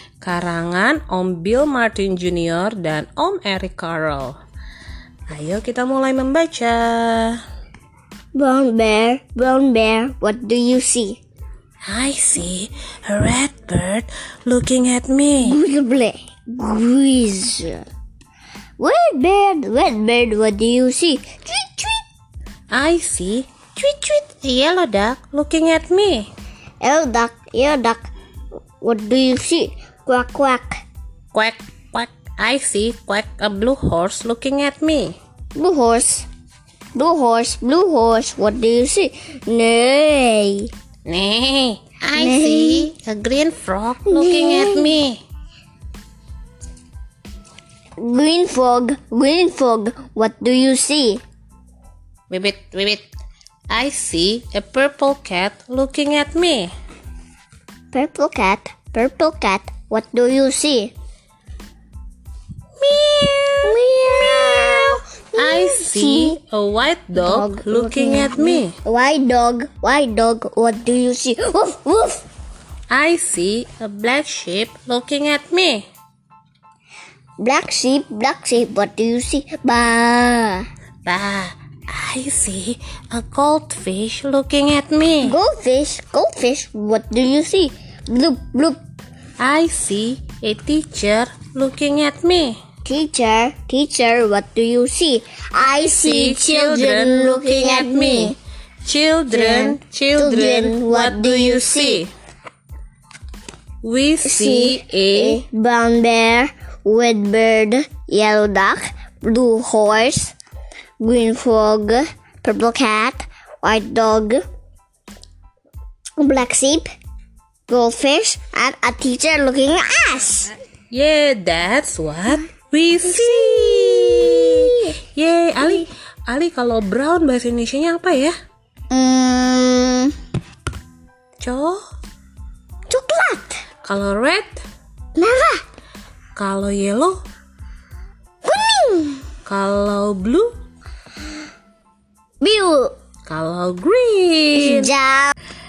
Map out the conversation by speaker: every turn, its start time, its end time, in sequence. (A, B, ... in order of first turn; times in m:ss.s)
0:00.2-0:04.4 A
0:05.3-0:07.4 A
0:08.3-0:11.2 B
0:11.8-0:15.6 A
0:15.4-0:17.8 B
0:18.8-0:22.0 B
0:22.7-0:26.3 A
0:26.8-0:28.1 B
0:28.8-0:30.8 B
0:31.3-0:35.2 A
0:35.5-0:36.3 B
0:36.9-0:40.7 B
0:41.0-0:45.2 A
0:42.1-0:42.9 B
0:44.1-0:44.9 B
0:48.0-0:51.2 B
0:52.3-0:53.0 A
0:53.7-0:56.7 A
0:57.9-1:00.9 B
1:02.8-1:08.8 A
1:03.6-1:06.4 B
1:07.1-1:12.2 B
1:12.9-1:15.8 A
1:17.4-1:20.6 B
1:21.0-1:25.4 A
1:25.2-1:28.8 B
1:29.4-1:32.6 A
1:32.8-1:38.4 B
1:35.9-1:42.1 A
1:39.3-1:42.0 B
1:43.8-1:45.4 A
1:44.2-1:50.3 B
1:51.0-1:54.4 B
1:56.2-1:56.9 B
1:57.7-2:00.5 B
2:00.9-2:08.4 A
2:03.0-2:05.0 B
2:08.9-2:10.1 B
2:11.4-2:11.8 A
2:12.9-2:13.6 B
2:13.8-2:14.6 A
2:15.2-2:15.6 B
2:16.4-2:17.2 A
2:18.4-2:19.2 B
2:19.4-2:20.5 A
2:22.4-2:22.9 B
2:23.3-2:24.9 A
2:24.5-2:25.3 B